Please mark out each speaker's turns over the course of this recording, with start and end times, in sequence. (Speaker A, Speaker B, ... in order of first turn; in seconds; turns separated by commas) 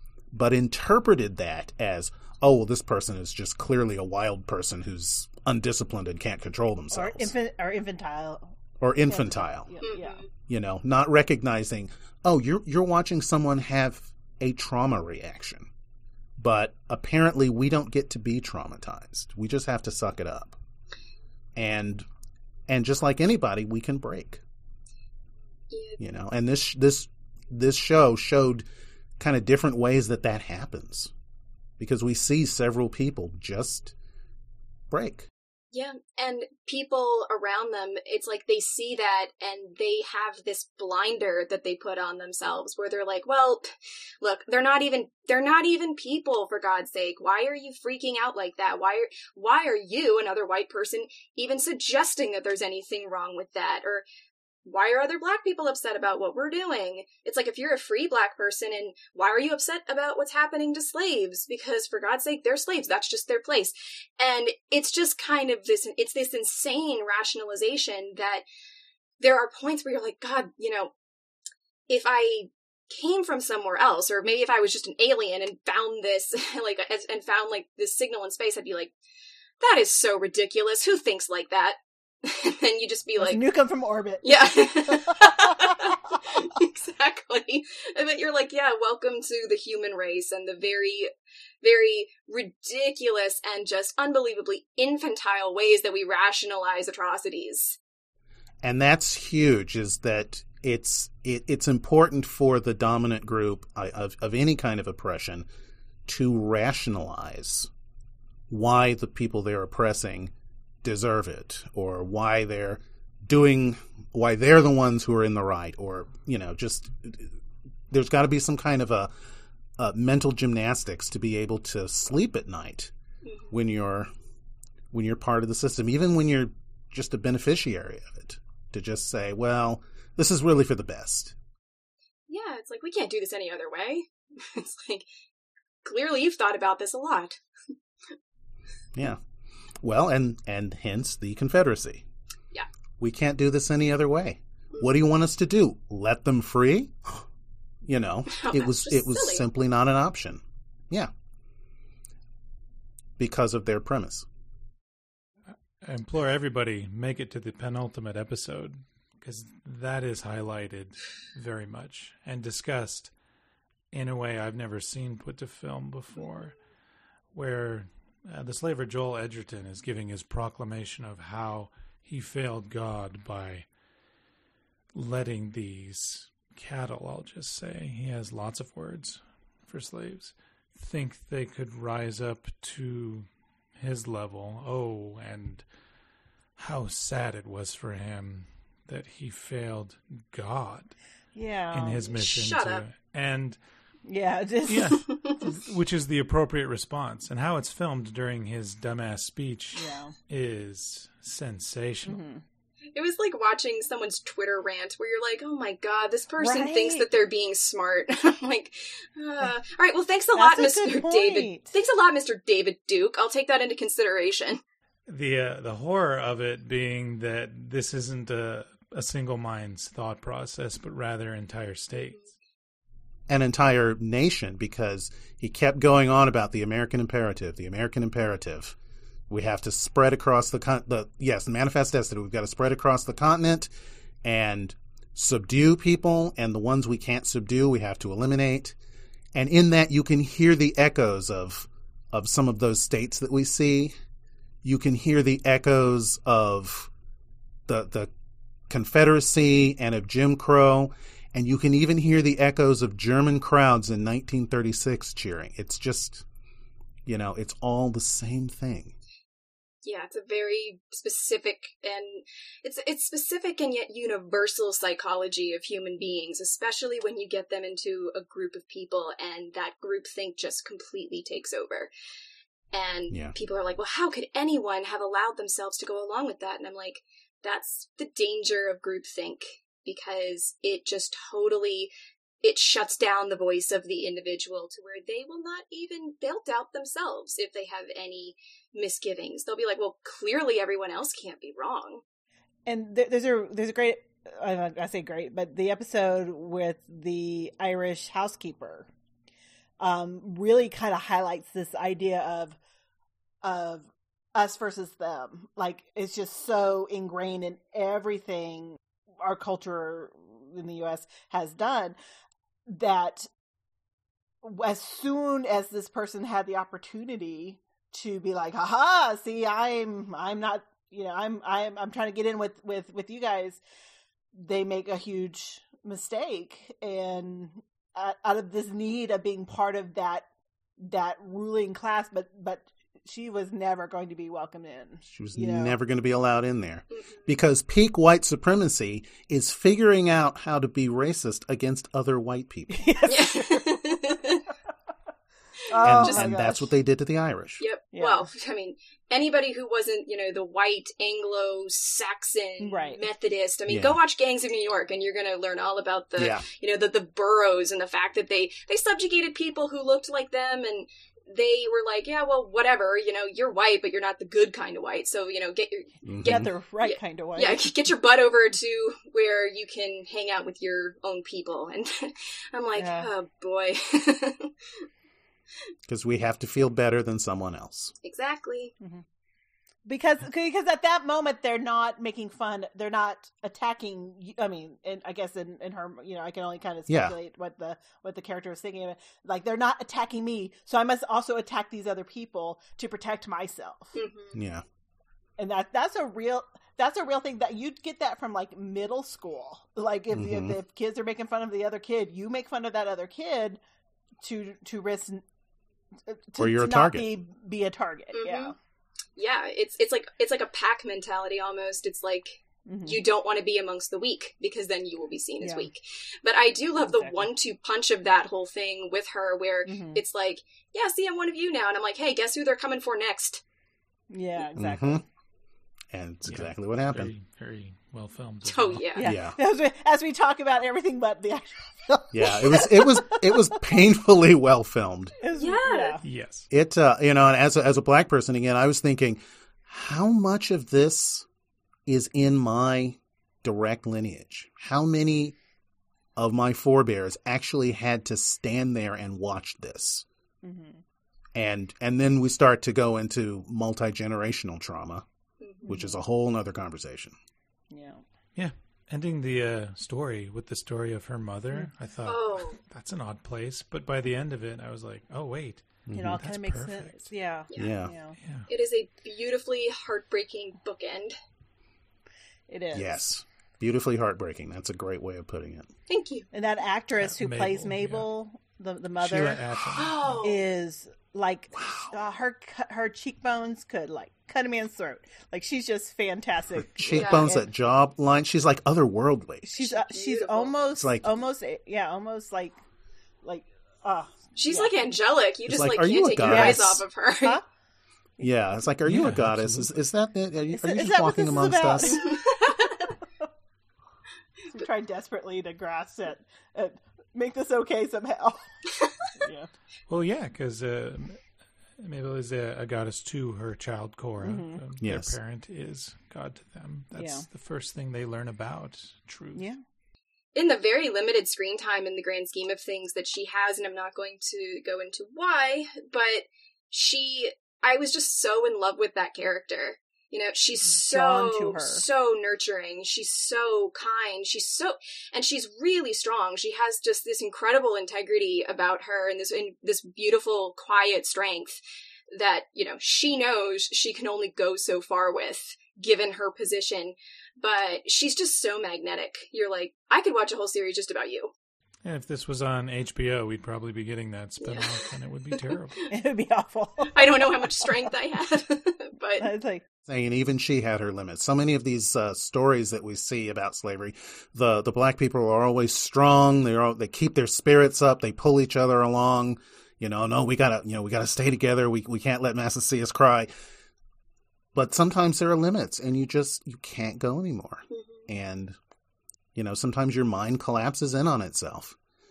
Speaker A: 0.3-7.3, Speaker B: 6.9-10.2, Speaker A: 8.8-9.7, Speaker C: 9.8-10.2, Speaker A: 10.5-15.7, Speaker A: 16.4-20.6, Speaker A: 21.6-22.1, Speaker A: 22.7-24.4, Speaker C: 25.7-26.0, Speaker A: 26.0-28.6, Speaker A: 29.2-31.1, Speaker A: 31.8-33.9, Speaker A: 34.9-35.3, Speaker C: 35.7-43.7, Speaker C: 44.2-54.0, Speaker C: 54.6-68.4, Speaker C: 69.2-70.9, Speaker C: 71.9-78.9, Speaker C: 79.6-83.4, Speaker B: 83.2-85.9, Speaker C: 84.2-91.1, Speaker C: 91.6-97.8, Speaker A: 98.6-105.5, Speaker A: 106.1-107.7, Speaker A: 108.5-110.3, Speaker A: 110.8-117.3, Speaker A: 117.9-119.1, Speaker A: 119.8-122.9, Speaker C: 123.2-123.5, Speaker A: 123.5-124.1, Speaker A: 124.9-131.3, Speaker C: 132.3-135.1, Speaker C: 135.8-137.4, Speaker A: 138.9-139.2, Speaker A: 139.8-142.0, Speaker A: 143.0-147.2, Speaker A: 147.8-151.1, Speaker C: 148.3-149.4, Speaker A: 153.2-154.2, Speaker D: 155.8-163.1, Speaker D: 163.9-166.6, Speaker D: 167.3-173.7, Speaker D: 174.9-185.6, Speaker D: 186.6-190.9, Speaker B: 191.3-192.1, Speaker D: 191.7-193.6, Speaker C: 192.1-192.8, Speaker B: 194.1-195.1, Speaker D: 194.7-202.2, Speaker C: 195.1-195.4, Speaker B: 199.7-200.1, Speaker B: 202.1-202.4, Speaker C: 202.9-214.6, Speaker B: 206.4-207.1, Speaker B: 210.3-211.7, Speaker D: 215.1-222.2, Speaker A: 223.3-228.8, Speaker A: 229.3-233.7, Speaker A: 234.2-238.8, Speaker A: 239.3-243.9, Speaker A: 244.6-246.9, Speaker A: 247.7-248.1, Speaker A: 248.7-256.2, Speaker A: 257.1-258.9, Speaker C: 259.8-271.9, Speaker C: 272.7-292.0, Speaker B: 292.7-298.9, Speaker B: 299.8-302.6, Speaker B: 303.4-311.9, Speaker B: 312.7-313.3, Speaker B: 314.4-323.6, Speaker B: 324.3-330.2, Speaker B: 330.8-335.8, Speaker A: 335.1-342.9, Speaker C: 336.9-337.2, Speaker B: 342.7-343.8, Speaker C: 343.1-344.4, Speaker B: 345.7-346.7, Speaker C: 345.8-346.3, Speaker A: 345.8-347.6, Speaker C: 347.6-374.8, Speaker B: 347.9-348.2, Speaker B: 352.6-353.0, Speaker A: 353.7-354.0, Speaker A: 356.2-356.4, Speaker A: 366.0-366.5, Speaker B: 366.2-367.7, Speaker B: 372.8-373.1, Speaker A: 375.9-377.9, Speaker C: 378.0-378.7, Speaker B: 379.9-394.0, Speaker A: 386.9-387.1, Speaker C: 393.9-394.3, Speaker A: 394.3-394.6, Speaker B: 395.4-403.6, Speaker A: 400.1-400.6, Speaker B: 404.2-405.2, Speaker B: 406.1-408.5, Speaker A: 406.4-407.1, Speaker C: 408.1-408.5, Speaker C: 409.1-423.4, Speaker B: 412.7-413.0, Speaker B: 415.4-415.7, Speaker B: 416.8-417.2, Speaker B: 419.6-420.0, Speaker B: 424.1-425.0, Speaker A: 424.6-425.0, Speaker A: 425.9-427.1, Speaker D: 426.2-428.9, Speaker C: 428.4-429.1, Speaker B: 428.9-433.3, Speaker A: 429.0-429.4, Speaker A: 432.1-435.1, Speaker C: 432.4-432.8, Speaker B: 435.2-436.0, Speaker C: 435.3-436.0, Speaker D: 436.0-436.5, Speaker A: 436.5-441.2, Speaker A: 441.9-445.3, Speaker A: 446.2-450.0, Speaker B: 450.4-450.8, Speaker A: 451.3-455.0, Speaker C: 455.4-455.7, Speaker B: 455.6-456.0, Speaker A: 455.7-457.1, Speaker B: 457.7-458.0, Speaker D: 458.3-467.1, Speaker C: 462.0-462.6, Speaker A: 465.9-466.2, Speaker B: 465.9-468.2, Speaker A: 467.6-467.9, Speaker D: 468.2-468.5, Speaker C: 468.5-471.1, Speaker B: 472.5-473.0, Speaker A: 472.7-475.7, Speaker C: 475.9-476.3, Speaker B: 476.3-487.4, Speaker D: 477.0-478.1, Speaker D: 479.0-480.1, Speaker C: 479.7-480.4, Speaker A: 481.5-481.9, Speaker A: 486.7-489.6, Speaker C: 486.9-487.3, Speaker B: 489.4-492.6, Speaker C: 489.6-490.5, Speaker A: 490.8-491.1, Speaker B: 493.2-494.7, Speaker C: 494.4-497.4, Speaker A: 495.5-496.8, Speaker B: 496.2-497.4, Speaker A: 498.2-502.0, Speaker D: 498.8-499.7, Speaker B: 500.5-502.2, Speaker C: 501.9-502.9, Speaker B: 504.5-508.4, Speaker B: 509.1-509.5, Speaker D: 509.9-511.2, Speaker D: 511.8-519.4, Speaker B: 514.2-514.6, Speaker A: 514.8-515.2, Speaker B: 516.9-517.2, Speaker C: 520.3-541.6, Speaker B: 530.6-531.8, Speaker C: 542.1-551.3, Speaker D: 551.8-555.8, Speaker C: 554.4-554.9, Speaker B: 555.9-557.7, Speaker C: 556.9-559.3, Speaker B: 559.2-559.6, Speaker A: 559.9-573.3, Speaker A: 574.5-578.6, Speaker C: 577.7-578.1, Speaker A: 579.3-581.8